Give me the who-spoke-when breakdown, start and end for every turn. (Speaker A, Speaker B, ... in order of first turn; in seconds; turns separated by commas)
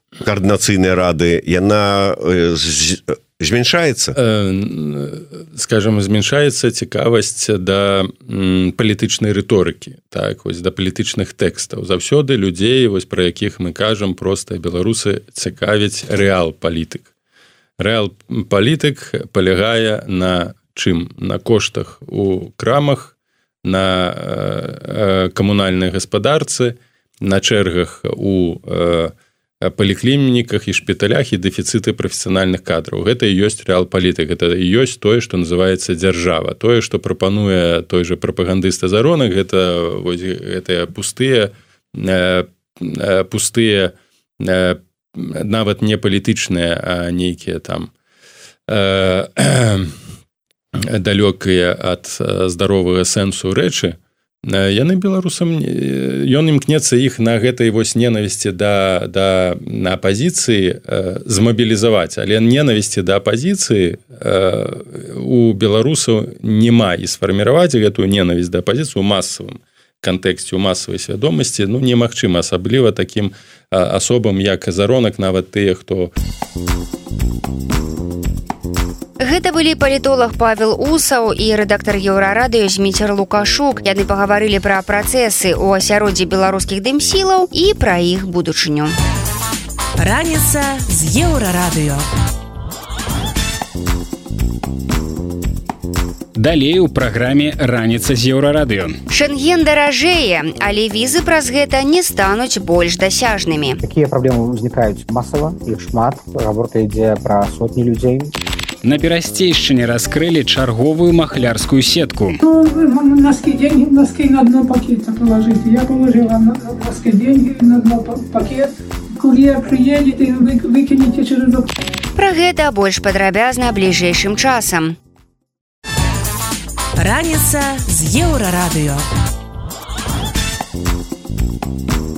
Speaker A: 0.2-4.1, Speaker B: 4.2-17.1, Speaker B: 17.8-23.1, Speaker B: 23.6-47.9, Speaker B: 48.7-50.0, Speaker B: 50.8-76.1, Speaker C: 79.2-89.0, Speaker D: 90.0-92.1, Speaker E: 96.4-99.0, Speaker C: 99.1-103.8, Speaker F: 103.8-108.3, Speaker E: 108.8-112.4, Speaker G: 112.4-121.7, Speaker C: 122.2-125.0, Speaker D: 127.0-129.1